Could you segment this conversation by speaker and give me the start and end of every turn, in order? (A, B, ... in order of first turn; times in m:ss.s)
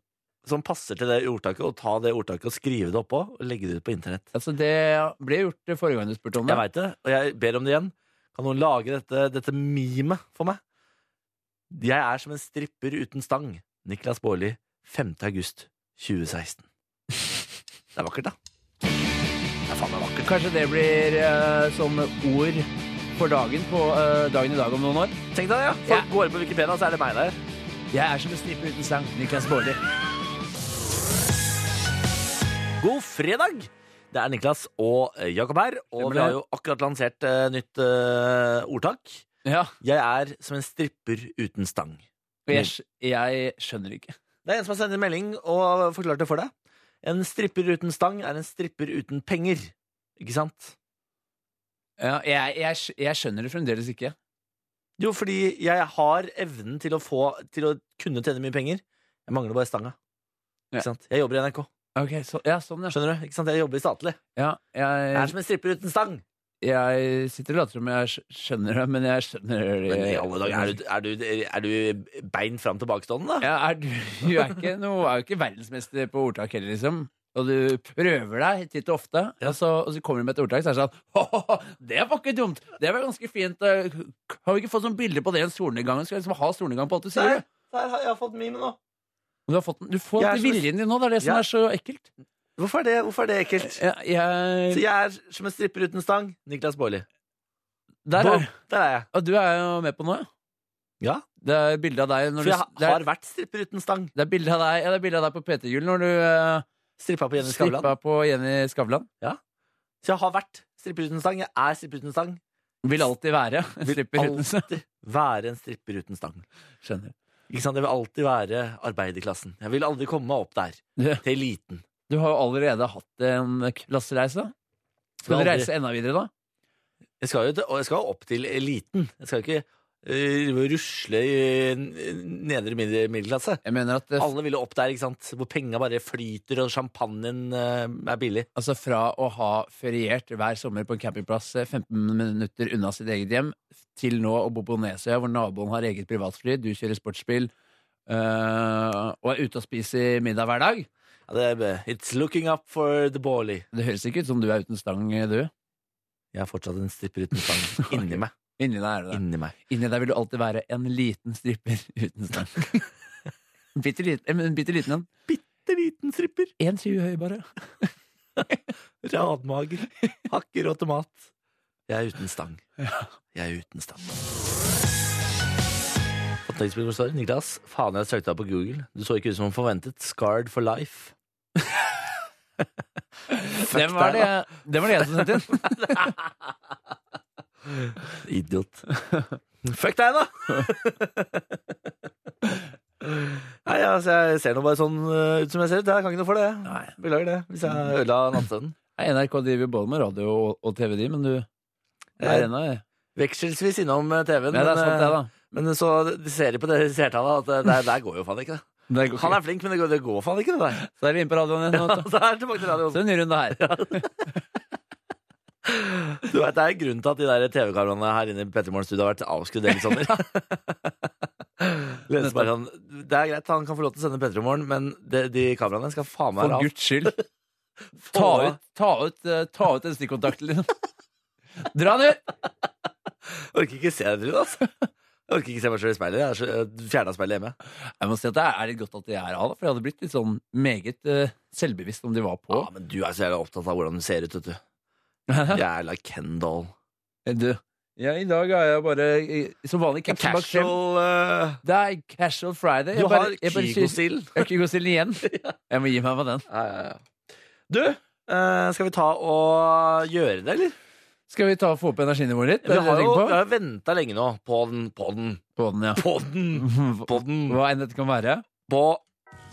0:00.4-0:04.3 A
0:04.3-0:06.6 B
0:06.4-0:10.6 A
0:11.7-0:16.6 A
0:17.9-0:18.3 A
0:19.7-0:20.2 A
0:20.2-0:25.2 B
0:25.3-0:27.4 A
0:27.9-0:29.8 B
0:32.8-0:39.3 A
0:36.0-0:36.4 B
0:39.4-0:39.7 B
0:39.8-0:42.7 A
0:42.5-0:44.1 B
0:44.4-0:46.5 A
0:47.0-0:50.7 A
0:52.0-0:54.1 B
0:55.0-1:00.0 A
1:00.8-1:01.7 A
1:02.0-1:03.0 B
1:02.9-1:04.2 A
1:04.4-1:05.3 B
1:05.1-1:06.2 A
1:06.6-1:10.7 B
1:09.9-1:13.5 A
1:13.4-1:27.4 B
1:27.1-1:28.8 A
1:29.5-1:32.0 B
1:30.2-1:30.6 A
1:32.6-1:33.8 A
1:33.6-1:34.8 B
1:34.7-1:37.0 A
1:38.0-1:38.6 B
1:38.2-1:39.1 A
1:39.1-1:40.3 B
1:41.0-1:41.2 A
1:41.4-1:43.0 B
1:42.4-1:44.1 A
1:44.1-1:46.6 B
1:47.0-1:47.9 A
1:47.4-1:49.1 B
1:50.0-1:52.4 A
1:52.8-1:54.7 B
1:53.8-1:56.4 A
1:56.8-1:57.1 B
1:57.5-2:01.8 A
2:01.0-2:01.2 B
2:02.1-2:04.5 B
2:05.2-2:05.7 A
2:05.2-2:06.3 B
2:07.2-2:13.6 A
2:13.6-2:14.3 B
2:14.2-2:18.5 A
2:18.6-2:27.5 B
2:28.1-2:30.9 B
2:31.3-2:33.6 A
2:33.7-2:35.5 B
2:36.3-2:38.3 A
2:37.9-2:42.7 B
2:39.1-2:39.6 A
2:43.8-2:45.1 B
2:45.3-2:46.5 A
2:46.6-2:47.9 B
2:49.0-2:51.3 A
2:51.9-2:52.6 A
2:52.8-2:53.1 B
2:53.3-2:54.0 A
2:56.4-3:01.1 A
3:03.3-3:05.8 B
3:03.6-3:04.3 A
3:04.9-3:06.5 A
3:07.6-3:08.8 A
3:08.9-3:09.4 B
3:09.6-3:11.7 A
3:13.0-3:18.8 A
3:16.6-3:16.9 B
3:19.0-3:21.5 B
3:22.2-3:22.5 A
3:22.2-3:22.8 B
3:23.1-3:30.8 A
3:24.5-3:25.3 B
3:28.9-3:29.4 B
3:30.9-3:32.1 B
3:31.7-3:34.1 A
3:32.9-3:34.1 B
3:35.6-3:47.1 A
3:42.2-3:42.5 B
3:46.4-3:47.2 B
3:48.0-3:48.6 A
3:48.1-3:50.7 B
3:51.6-3:52.2 B
3:53.2-3:57.6 A
3:58.0-4:02.7 B
4:02.5-4:04.6 A
4:05.3-4:05.6 B
4:05.5-4:06.7 A
4:07.2-4:10.7 B
4:10.0-4:11.6 A
4:11.6-4:16.4 B
4:12.9-4:14.5 A
4:15.2-4:15.5 A
4:16.5-4:17.0 A
4:17.7-4:20.7 A
4:21.3-4:23.4 B
4:22.6-4:25.4 A
4:25.6-4:28.4 B
4:26.0-4:27.6 A
4:28.7-4:29.0 A